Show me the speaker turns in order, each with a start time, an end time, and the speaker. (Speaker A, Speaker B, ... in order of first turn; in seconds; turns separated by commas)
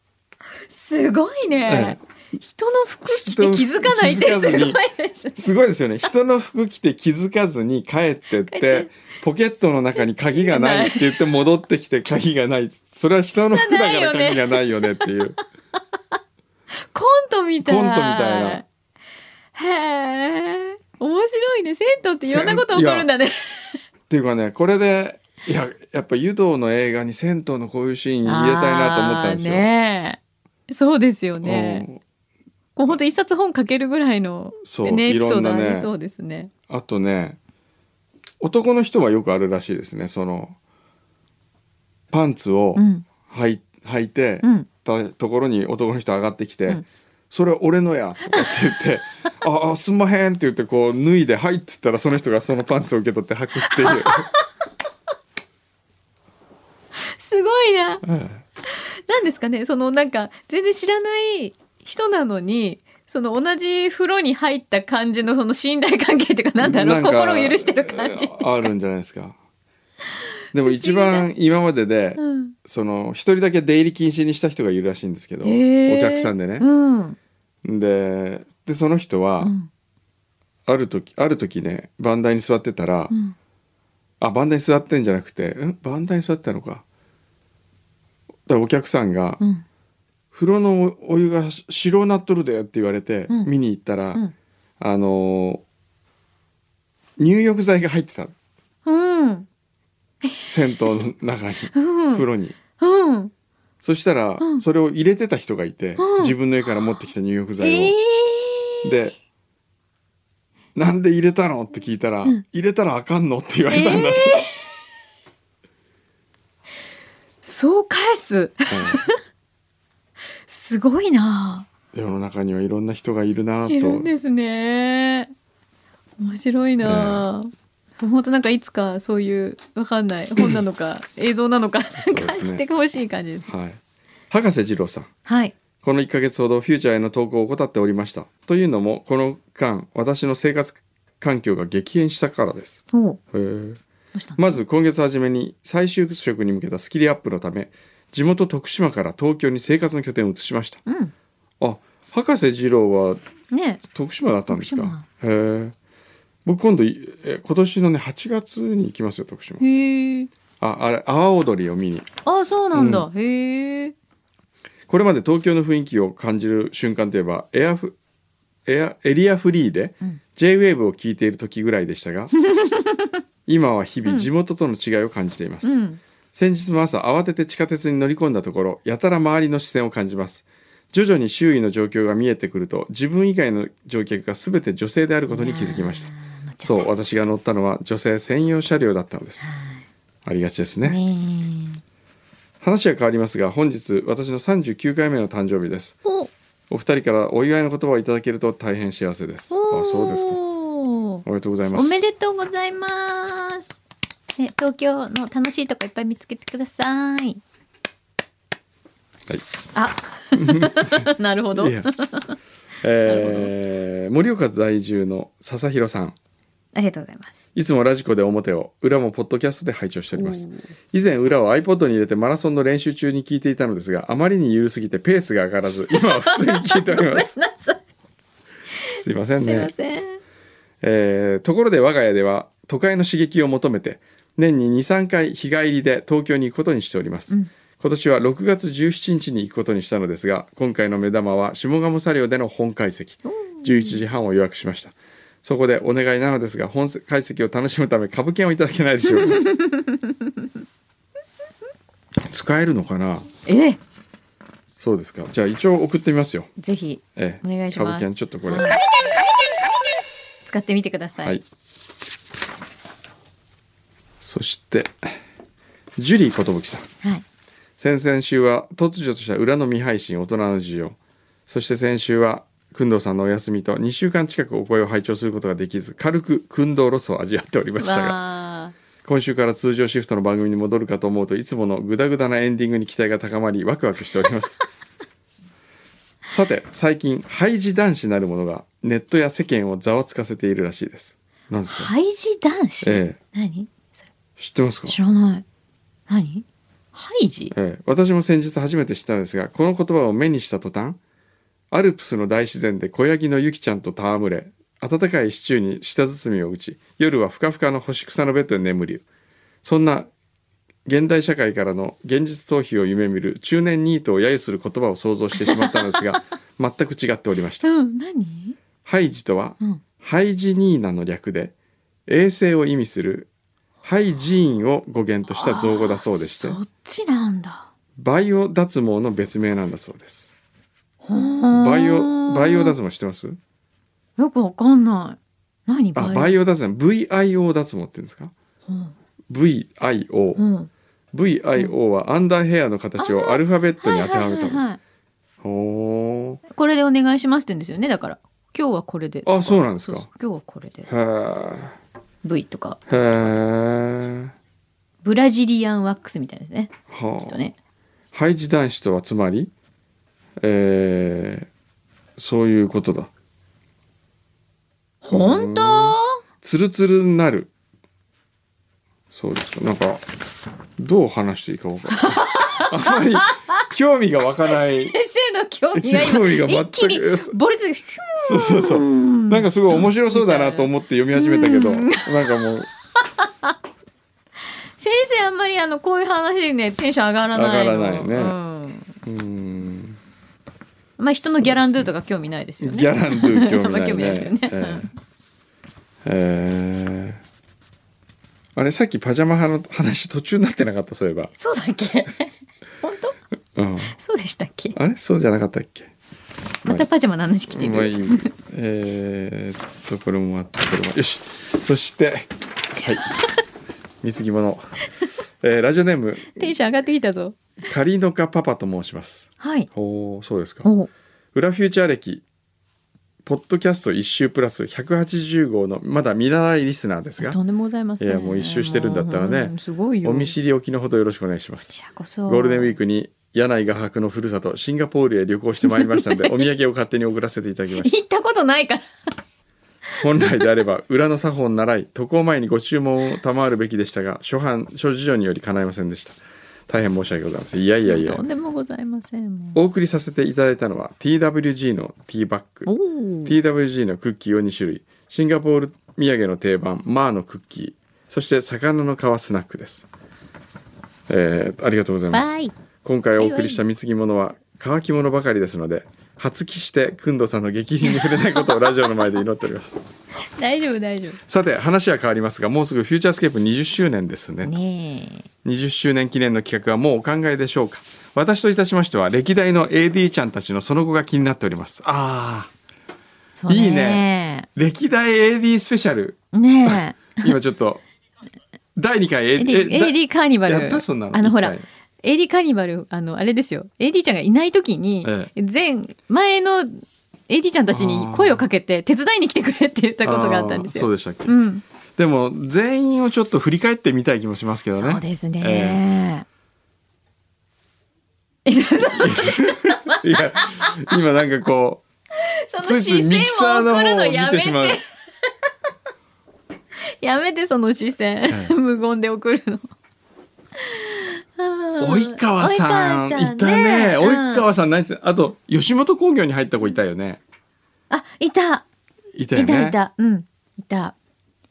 Speaker A: 0.7-5.4, Speaker B: 1.7-2.0, Speaker B: 3.1-4.8, Speaker B: 5.4-15.4, Speaker A: 8.5-8.9, Speaker A: 10.3-11.3, Speaker A: 13.5-14.9, Speaker A: 16.9-18.6, Speaker B: 17.6-18.6, Speaker A: 19.6-23.8, Speaker B: 22.2-23.1, Speaker B: 24.1-29.7, Speaker A: 28.2-31.9, Speaker B: 31.4-32.0, Speaker A: 32.8-36.5, Speaker B: 34.6-35.9, Speaker B: 36.7-37.4, Speaker B: 38.4-40.6, Speaker B: 42.1-54.3, Speaker A: 42.8-43.1, Speaker A: 44.4-44.7, Speaker A: 53.7-54.4, Speaker A: 57.0-58.0, Speaker B: 58.0-58.4, Speaker A: 58.7-68.5, Speaker B: 66.6-69.4, Speaker B: 70.5-76.7, Speaker A: 70.5-71.3, Speaker A: 72.2-72.5, Speaker A: 75.4-77.2, Speaker B: 77.6-79.5, Speaker A: 79.4-79.7, Speaker B: 80.7-83.1, Speaker B: 84.2-86.8, Speaker B: 88.5-89.4, Speaker B: 90.3-94.2, Speaker B: 94.8-95.6, Speaker B: 97.2-98.3, Speaker A: 98.8-99.5, Speaker A: 100.2-100.9, Speaker B: 100.5-102.6, Speaker A: 101.8-102.2, Speaker A: 102.8-103.3, Speaker B: 103.8-108.0, Speaker A: 106.0-106.3, Speaker A: 107.6-108.9, Speaker B: 108.8-109.2, Speaker B: 110.8-114.4, Speaker A: 113.7-114.6, Speaker A: 117.4-119.2, Speaker B: 118.7-119.0, Speaker A: 120.5-121.7, Speaker B: 121.9-124.1, Speaker A: 123.7-125.3, Speaker A: 126.2-133.5, Speaker B: 126.8-127.3, Speaker B: 132.0-132.6, Speaker B: 133.5-135.1, Speaker A: 135.3-135.5, Speaker B: 135.8-142.8, Speaker A: 142.9-143.2, Speaker B: 143.3-143.8, Speaker A: 144.1-144.5, Speaker B: 144.4-150.8, Speaker A: 150.9-151.1, Speaker B: 151.6-153.2, Speaker A: 153.5-153.8, Speaker B: 153.9-155.7, Speaker A: 154.5-155.0, Speaker B: 156.4-159.6, Speaker A: 159.6-160.3, Speaker B: 160.6-162.1, Speaker A: 162.2-163.9, Speaker B: 162.7-163.1, Speaker B: 164.9-168.0, Speaker B: 168.7-172.3, Speaker A: 172.4-173.2, Speaker B: 173.5-175.8, Speaker A: 175.6-176.0, Speaker B: 176.3-186.1, Speaker A: 185.3-186.9, Speaker B: 186.6-189.5, Speaker A: 189.4-189.8, Speaker B: 190.2-191.0, Speaker A: 190.8-191.8, Speaker B: 192.6-196.0, Speaker B: 196.7-200.4, Speaker A: 199.5-203.7, Speaker B: 201.3-202.1, Speaker A: 204.4-207.4, Speaker A: 209.8-212.4, Speaker B: 210.3-211.9, Speaker B: 212.8-216.2, Speaker A: 213.1-213.5, Speaker A: 216.8-217.4, Speaker B: 217.6-227.3, Speaker A: 220.2-220.6, Speaker A: 225.9-227.8, Speaker A: 228.8-230.2, Speaker B: 228.9-229.7, Speaker B: 230.8-249.4, Speaker A: 243.3-244.0, Speaker A: 249.2-249.8, Speaker B: 252.3-253.3, Speaker A: 253.5-253.8, Speaker B: 254.8-256.5, Speaker A: 256.6-258.9, Speaker B: 257.2-258.8, Speaker A: 260.4-261.4, Speaker B: 264.2-265.2, Speaker B: 266.0-266.9, Speaker B: 267.8-278.2, Speaker A: 277.8-278.7, Speaker B: 279.0-284.6, Speaker B: 286.3-291.9, Speaker A: 291.7-294.0, Speaker B: 292.8-293.2, Speaker B: 294.4-295.0, Speaker A: 294.9-295.4, Speaker A: 296.1-297.5, Speaker B: 297.5-301.0, Speaker B: 301.7-309.0, Speaker B: 309.6-310.1, Speaker B: 310.9-317.7, Speaker A: 315.5-316.2, Speaker A: 317.6-318.6, Speaker B: 318.9-321.5, Speaker B: 322.1-323.3, Speaker B: 323.8-326.6, Speaker A: 325.3-327.7, Speaker B: 328.0-330.3, Speaker A: 331.0-332.8, Speaker B: 331.5-333.4, Speaker A: 334.2-336.4, Speaker B: 335.9-338.3, Speaker A: 338.7-338.9, Speaker B: 339.3-340.4, Speaker A: 340.4-340.7, Speaker B: 341.1-344.6, Speaker A: 343.0-344.8, Speaker B: 345.4-346.4, Speaker A: 346.5-350.9, Speaker B: 349.2-350.1, Speaker B: 350.9-351.8, Speaker A: 352.2-352.8, Speaker B: 352.9-354.3, Speaker A: 355.0-357.5, Speaker B: 356.9-357.4, Speaker B: 358.1-359.5, Speaker B: 360.4-361.5, Speaker B: 362.2-363.1, Speaker A: 365.0-366.2, Speaker B: 365.1-367.5, Speaker B: 369.1-370.1, Speaker B: 370.8-374.9, Speaker A: 372.0-373.6, Speaker A: 374.5-383.5, Speaker B: 375.8-377.4, Speaker B: 378.2-382.7, Speaker A: 384.8-388.9, Speaker B: 387.3-388.4, Speaker B: 389.0-390.0, Speaker A: 391.0-394.9, Speaker B: 391.3-391.9, Speaker B: 392.6-394.9, Speaker B: 396.1-397.2, Speaker B: 398.6-401.3, Speaker A: 401.4-402.3, Speaker A: 402.8-403.2, Speaker B: 403.6-403.9, Speaker A: 403.9-404.8, Speaker B: 404.8-405.9, Speaker A: 406.6-408.3, Speaker B: 407.5-413.0, Speaker B: 414.0-414.7, Speaker B: 415.4-416.5, Speaker A: 416.4-417.4, Speaker B: 417.7-420.7, Speaker A: 419.4-419.7, Speaker A: 420.6-420.9, Speaker B: 421.4-422.2, Speaker B: 423.2-427.4, Speaker A: 427.2-430.4, Speaker B: 428.0-431.7, Speaker A: 431.7-432.8, Speaker B: 432.3-438.0, Speaker A: 435.6-436.4, Speaker A: 437.8-438.9, Speaker B: 440.0-448.2, Speaker A: 447.9-449.6, Speaker B: 449.6-452.7, Speaker A: 452.7-453.4, Speaker B: 453.2-459.9, Speaker B: 461.1-469.8, Speaker A: 462.1-462.5, Speaker A: 463.2-463.6, Speaker A: 467.9-468.9, Speaker A: 470.4-471.2, Speaker B: 471.3-474.6, Speaker A: 474.4-475.3, Speaker B: 475.4-482.5, Speaker A: 483.4-484.5, Speaker B: 483.5-487.8, Speaker A: 486.3-487.4, Speaker B: 488.8-491.7, Speaker A: 489.4-501.6, Speaker B: 495.0-495.3, Speaker B: 497.7-498.4, Speaker B: 500.0-501.4, Speaker B: 502.0-505.8, Speaker A: 504.7-506.3, Speaker A: 508.5-510.9, Speaker B: 508.9-511.8, Speaker A: 512.2-514.9, Speaker B: 512.6-514.8, Speaker A: 516.8-519.7, Speaker B: 518.3-518.5, Speaker A: 520.6-524.5, Speaker B: 521.8-527.2, Speaker A: 527.9-528.6, Speaker B: 529.1-529.8, Speaker A: 529.4-531.0